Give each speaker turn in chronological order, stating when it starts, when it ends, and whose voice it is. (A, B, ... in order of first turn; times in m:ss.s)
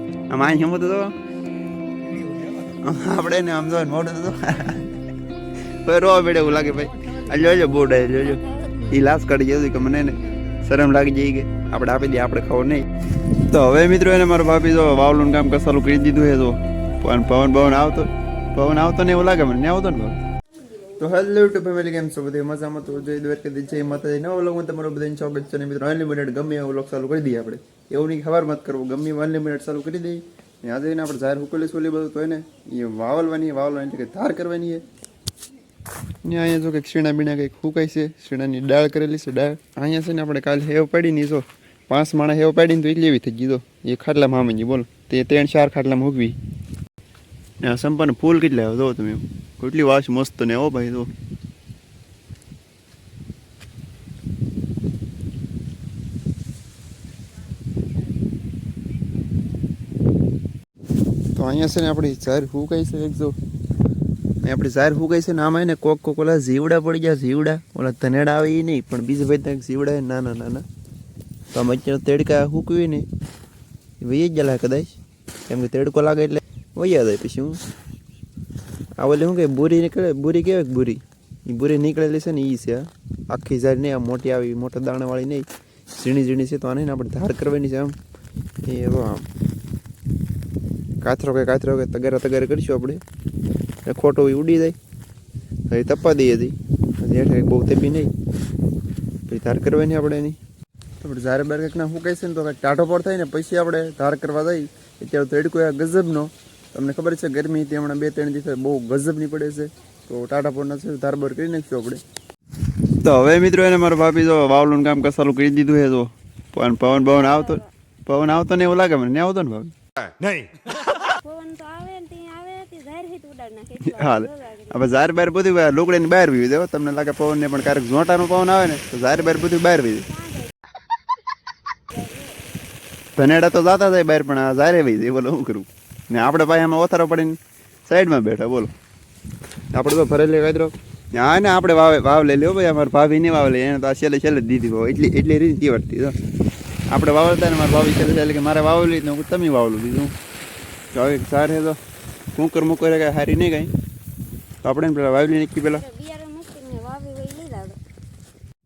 0:00.3-0:01.1 A
0:02.7-0:05.0 A
0:05.8-0:12.9 A
0:08.0-0:08.9 B
0:13.4-0:20.2 A
0:21.0-0:34.8 A
0:36.2-0:46.4 A
0:47.6-0:51.1 A
1:01.3-1:03.4 A
1:04.4-1:10.6 A
1:11.5-1:13.1 A
1:14.0-1:14.9 A
1:15.5-1:17.6 A
1:19.0-1:28.0 A
1:28.6-1:29.3 A
1:31.0-1:33.0 A
1:33.8-1:34.8 A
1:35.7-1:38.1 A
1:39.3-1:40.4 A
1:41.0-1:52.0 A
1:53.0-1:59.7 A
1:56.9-1:57.7 B
2:01.0-2:04.8 B
2:03.8-2:10.1 A
2:10.1-2:10.5 B
2:11.9-2:12.4 B
2:13.2-2:18.7 A
2:19.7-2:26.2 A
2:26.9-2:30.1 A
2:30.9-2:31.8 A
2:32.3-2:33.7 A
2:34.6-2:35.8 A
2:35.6-2:37.8 B